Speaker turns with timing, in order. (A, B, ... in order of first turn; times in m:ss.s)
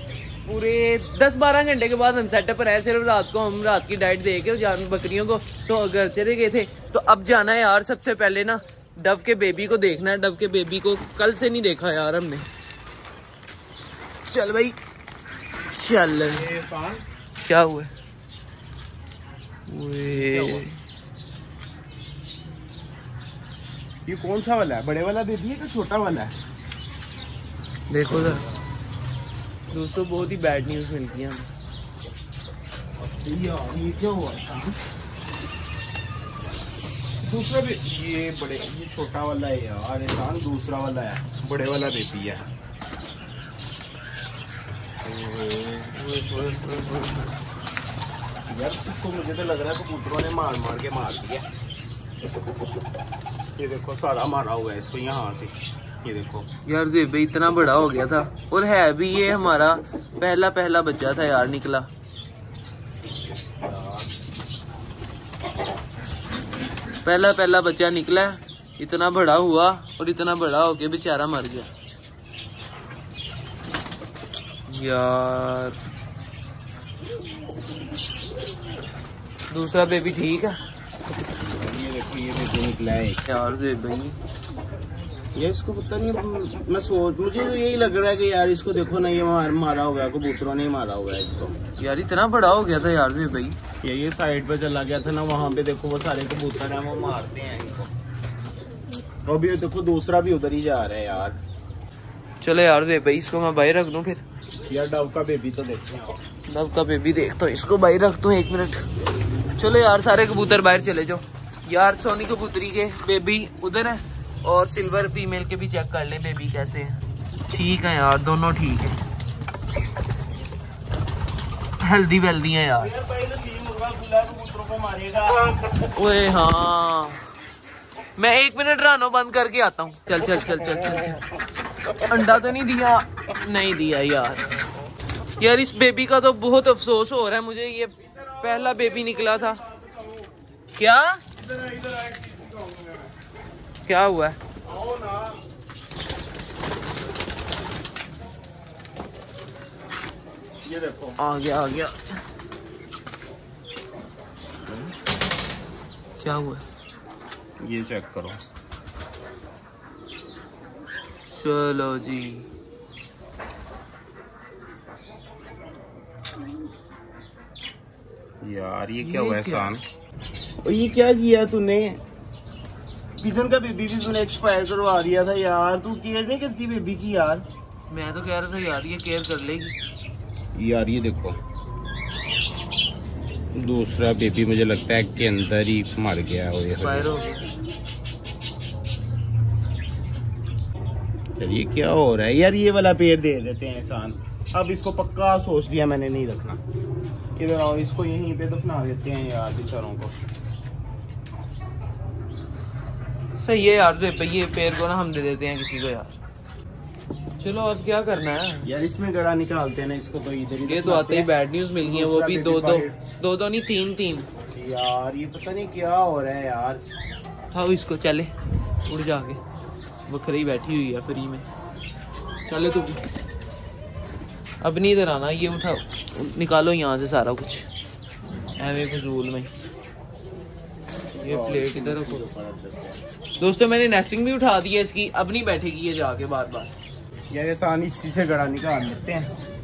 0:00.4-0:12.4 A
0:14.3-0:14.8 A
0:15.7-0:16.5 A
0:16.3-0:17.0 B
0:17.4-0:17.9 A
0:19.7-0:20.8 A
0:20.1-0:20.6 B
0:24.0-0:26.3 B
0:27.9-0:28.4 A
0:28.1-0:28.4 B
0:29.7-0:31.5 A
0:33.0-0:34.8 B
0:37.2-0:42.4 B
0:45.0-0:45.9 B
0:45.9-0:47.3 A
0:48.5-0:51.4 B
0:53.6-0:55.5 B
0:56.0-0:56.4 B
0:56.6-1:01.9 A
1:03.6-1:04.1 B
1:07.0-1:11.7 A
1:14.7-1:15.8 A
1:19.5-1:20.6 A
1:21.4-1:23.2 B
1:23.2-1:24.2 A
1:25.3-1:31.6 B
1:31.8-1:33.6 A
1:33.8-1:37.9 B
1:39.2-1:41.4 B
1:42.4-1:44.2 A
1:44.7-1:46.2 B
1:46.5-1:48.9 A
1:49.6-1:59.0 A
2:01.8-2:02.9 A
2:02.8-2:05.7 B
2:05.9-2:07.2 A
2:08.2-2:11.2 A
2:12.1-2:14.5 A
2:15.4-2:19.6 A
2:18.0-2:20.3 B
2:20.8-2:21.2 A
2:21.4-2:23.1 B
2:23.8-2:24.4 A
2:24.6-2:25.4 B
2:30.6-2:31.2 B
2:31.2-2:32.0 A
2:36.2-2:36.6 A
2:37.6-2:38.4 B
2:41.3-2:42.4 A
2:48.4-2:49.8 B
2:49.0-2:49.7 A
2:50.6-2:52.0 B
2:53.2-2:57.4 B
2:57.9-2:59.8 A
3:00.6-3:01.4 B
3:03.5-3:07.2 B
3:06.8-3:07.4 A
3:11.4-3:16.6 B
3:17.4-3:20.1 B
3:23.4-3:26.1 A
3:27.4-3:28.7 A
3:28.6-3:33.0 B
3:30.7-3:34.3 A
3:34.5-3:36.8 B
3:37.5-3:38.3 A
3:38.8-3:39.4 A
3:40.1-3:41.4 A
3:42.5-3:43.0 A
3:44.6-3:47.6 A
3:48.6-3:49.5 A
3:51.1-3:53.0 B
3:51.2-3:52.2 A
3:53.4-3:56.7 A
3:57.3-3:59.3 B